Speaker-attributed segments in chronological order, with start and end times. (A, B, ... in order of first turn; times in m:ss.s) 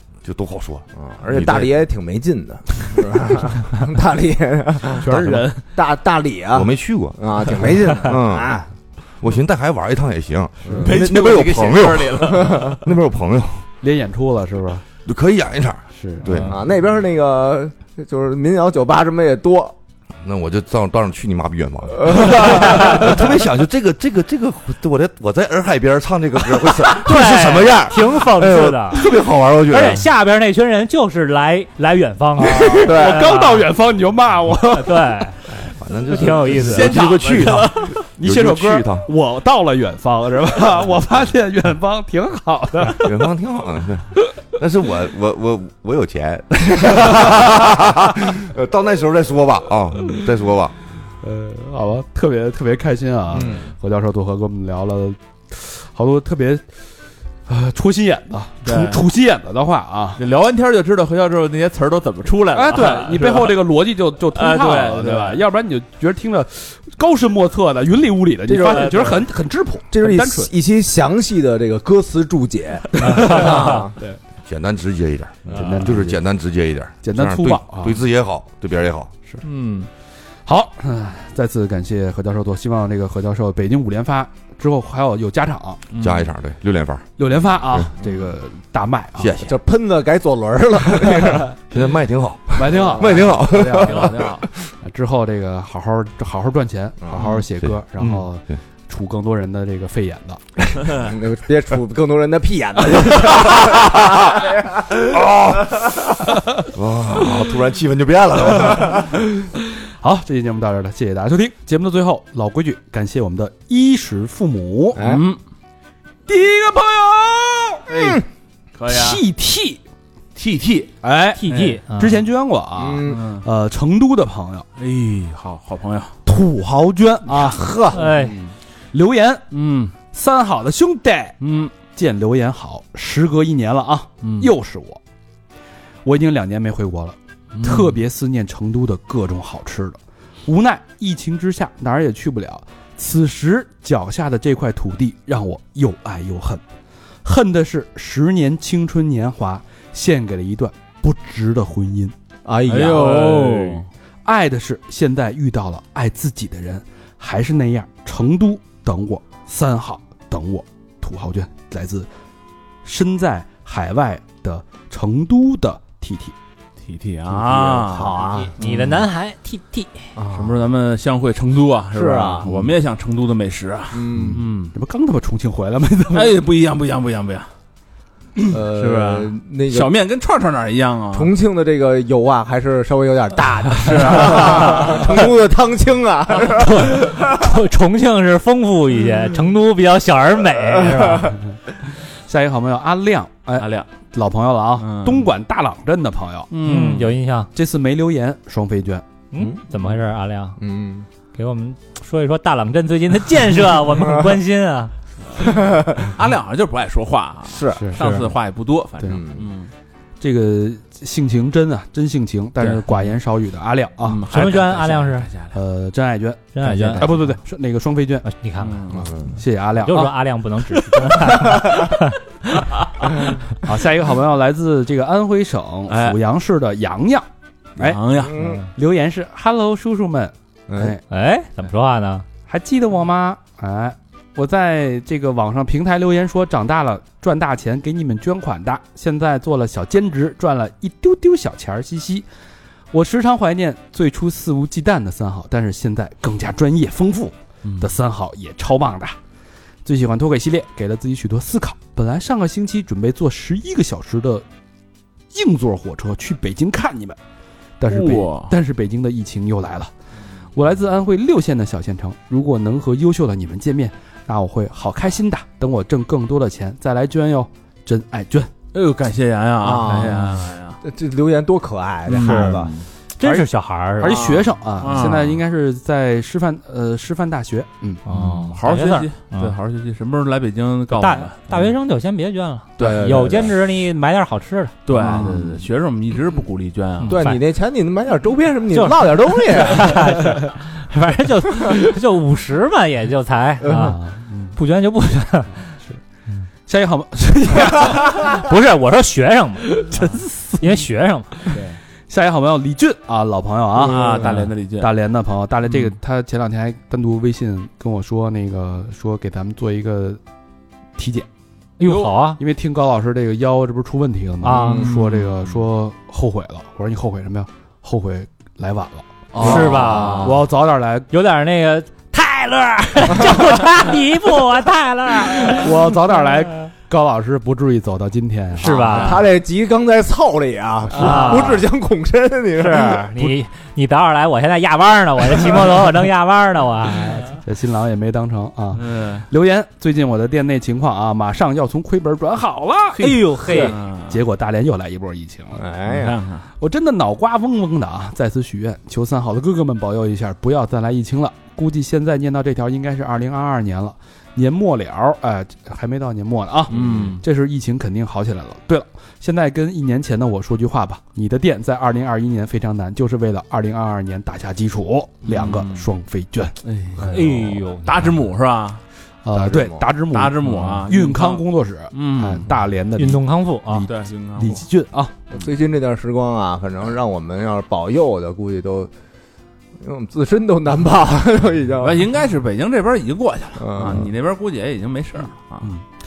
0:00.2-0:01.7 A
0:01.0-0:08.7 B
0:04.9-0:05.6 C
0:06.5-0:07.2 A
0:08.1-0:08.5 A
0:09.2-0:13.6 A
0:10.6-0:11.1 B
0:10.8-0:12.8 D
0:12.3-0:12.8 B
0:13.8-0:14.8 C
0:15.0-0:16.5 A
0:15.9-0:16.4 C
0:16.4-0:19.7 B
0:20.2-0:30.0 A
0:27.0-0:29.1 E
0:29.7-0:33.7 E
0:32.4-0:35.4 C
0:34.7-0:35.4 E
0:35.6-0:39.0 A
0:36.1-0:37.1 E
0:36.5-0:37.9 D
0:37.5-0:43.2 C
0:43.0-0:50.7 A
0:51.2-0:56.6 C
0:53.4-0:53.7 B
0:57.5-1:00.2 C
0:58.6-0:59.0 D
1:00.2-1:03.6 D
1:02.5-1:10.5 C
1:04.3-1:05.4 D
1:08.5-1:09.2 B
1:08.8-1:09.1 D
1:09.9-1:14.0 B
1:13.0-1:14.2 C
1:13.4-1:13.8 E
1:14.4-1:19.1 A
1:15.4-1:15.8 D
1:15.5-1:16.2 C
1:17.0-1:18.0 C
1:19.4-1:19.9 D
1:20.4-1:25.8 C
1:25.9-1:26.3 D
1:26.0-1:27.0 A
1:27.2-1:29.5 C
1:29.2-1:29.5 A
1:29.4-1:31.5 B
1:31.0-1:34.4 A
1:32.5-1:33.8 C
1:32.8-1:33.3 B
1:33.4-1:34.5 D
1:34.8-1:40.4 C
1:37.0-1:37.3 B
1:37.6-1:38.2 A
1:40.9-1:44.8 B
1:43.5-1:44.0 A
1:45.0-1:46.1 A
1:46.7-1:49.0 A
1:48.6-1:49.5 C
1:50.0-1:55.0 C
1:54.9-1:55.2 B
1:55.0-1:55.4 D
1:56.3-1:57.8 C
1:57.9-1:58.2 B
1:57.9-1:58.2 D
1:58.8-1:59.2 D
1:58.9-1:59.8 C
2:00.4-2:00.9 D
2:01.0-2:04.6 C
2:01.4-2:02.2 E
2:01.5-2:01.8 D
2:02.8-2:03.2 B
2:03.0-2:03.4 D
2:04.8-2:06.2 D
2:06.2-2:08.1 C
2:07.8-2:08.4 E
2:07.9-2:08.3 D
2:08.9-2:09.4 C
2:09.5-2:09.9 D
2:10.1-2:15.0 C
2:11.4-2:11.7 D
2:14.2-2:14.5 D
2:16.0-2:26.6 C
2:17.5-2:18.0 D
2:27.2-2:32.1 C
2:32.4-2:33.8 B
2:32.7-2:33.9 D
2:34.2-2:42.1 C
2:42.8-2:46.3 C
2:46.8-2:49.0 D
2:47.3-2:48.6 B
2:48.3-2:50.1 E
2:50.2-2:50.6 B
2:50.3-2:54.7 D
2:51.9-2:52.7 B
2:53.9-2:54.4 B
2:54.2-2:56.4 C
2:56.1-2:57.5 D
2:58.5-2:59.9 B
2:58.8-3:01.3 D
3:01.1-3:07.4 B
3:03.7-3:05.3 D
3:04.6-3:05.0 E
3:06.5-3:11.4 E
3:12.0-3:16.5 C
3:13.6-3:13.9 D
3:14.8-3:15.3 D
3:16.5-3:17.1 D
3:16.6-3:17.5 E
3:17.5-3:19.0 C
3:19.3-3:20.6 E
3:20.6-3:21.1 B
3:21.3-3:24.9 E
3:25.4-3:26.2 B
3:26.0-3:29.7 D
3:27.5-3:27.9 B
3:27.7-3:28.0 C
3:28.0-3:28.3 E
3:29.1-3:29.5 B
3:30.2-3:34.2 C
3:34.0-3:35.6 D
3:34.3-3:35.3 E
3:35.5-3:38.3 C
3:36.5-3:37.2 E
3:38.2-3:39.0 E
3:38.6-3:39.3 D
3:38.9-3:39.3 B
3:39.3-3:40.1 C
3:39.8-3:42.6 E
3:43.6-3:48.0 C
3:45.9-3:46.2 D
3:47.8-3:48.4 D
3:48.2-3:48.6 B
3:48.4-3:48.7 E
3:48.7-3:51.0 C
3:50.7-3:51.0 B
3:51.1-3:52.2 E
3:52.5-4:02.2 C
4:02.9-4:09.2 C
4:07.6-4:07.9 D
4:09.8-4:14.4 C
4:15.3-4:17.2 C
4:17.8-4:19.9 C
4:17.9-4:18.5 D
4:20.5-4:28.5 C
4:28.7-4:30.8 D
4:29.6-4:32.7 B
4:32.0-4:32.9 D
4:32.2-4:34.3 E
4:33.2-4:38.0 C
4:34.0-4:34.5 B
4:34.8-4:35.4 D
4:38.0-4:39.6 E
4:38.1-4:41.7 D
4:40.9-4:44.8 E
4:42.8-4:43.5 D
4:42.8-4:43.5 B
4:44.8-4:47.4 D
4:44.9-4:45.6 B
4:44.9-4:45.4 C
4:47.0-4:47.4 E
4:47.1-4:50.4 B
4:48.7-4:55.7 E
4:53.7-4:54.6 C
4:56.6-4:58.4 C
4:57.8-5:01.6 E
4:59.7-5:00.7 C
5:02.1-5:10.2 C
5:03.7-5:04.9 D
5:04.0-5:04.4 B
5:11.0-5:11.3 C
5:11.8-5:12.4 E
5:11.9-5:12.1 D
5:12.4-5:21.1 C
5:14.4-5:14.9 E
5:14.5-5:14.9 B
5:14.6-5:15.6 D
5:19.3-5:20.3 B
5:19.4-5:20.4 E
5:19.7-5:20.3 D
5:21.1-5:25.9 E
5:25.5-5:29.1 C
5:28.6-5:29.3 E
5:28.9-5:33.3 B
5:31.0-5:31.5 C
5:31.0-5:31.6 E
5:32.6-5:37.4 E
5:37.4-5:45.6 C
5:38.7-5:39.3 D
5:43.0-5:43.8 E
5:43.4-5:44.2 D
5:45.6-5:46.2 B
5:45.9-5:46.5 D
5:46.6-6:06.6 C
5:56.7-5:57.2 B
5:56.7-5:57.2 D
6:05.2-6:05.8 D
6:06.6-6:08.8 D
6:07.0-6:08.1 E
6:09.2-6:15.1 C
6:09.3-6:09.8 B
6:10.1-6:12.5 D
6:13.0-6:13.9 E
6:13.9-6:14.6 D
6:15.3-6:18.9 B
6:19.8-6:22.1 B
6:21.8-6:25.7 D
6:23.6-6:24.1 B